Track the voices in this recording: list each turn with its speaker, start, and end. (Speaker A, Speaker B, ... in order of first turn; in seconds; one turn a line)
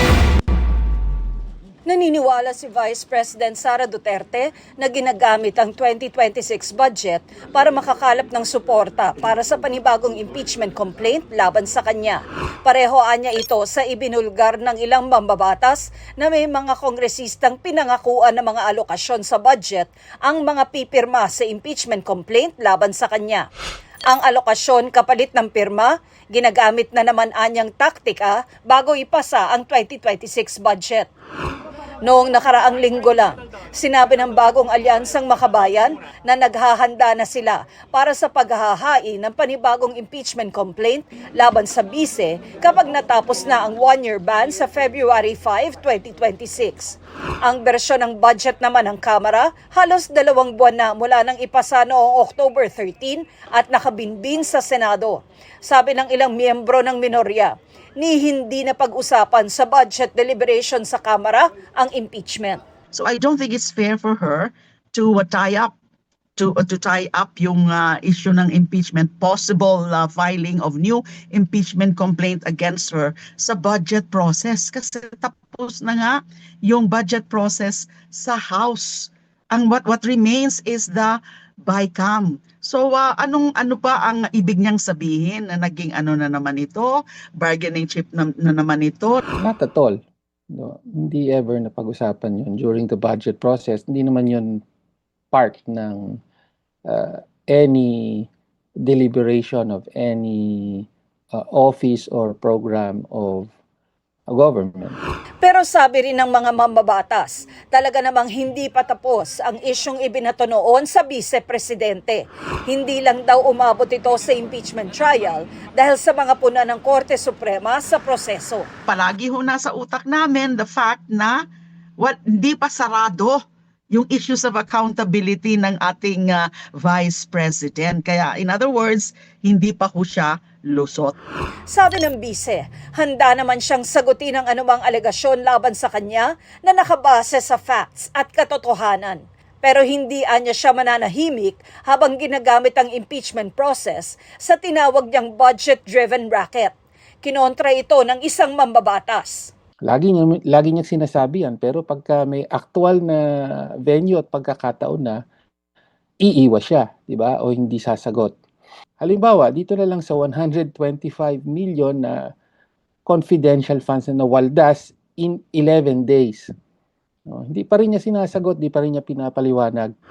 Speaker A: 1.9-23.5
Speaker A: 24.1-31.1
Speaker A: 32.0-62.6
Speaker B: 62.9-65.7
Speaker B: 66.4-89.2
Speaker C: 89.4-90.0
Speaker C: 90.5-94.6
Speaker C: 95.3-96.2
Speaker C: 96.9-98.3
Speaker C: 98.8-103.5
Speaker C: 104.3-105.0
Speaker A: 105.4-118.7
Speaker B: 118.9-121.4
Speaker B: 122.0-131.2
Speaker A: 131.7-149.5
Speaker C: 149.8-153.2
Speaker C: 153.8-155.2
Speaker C: 156.2-158.3
Speaker C: 159.0-162.3
Speaker C: 163.1-166.5
Speaker C: 167.3-169.9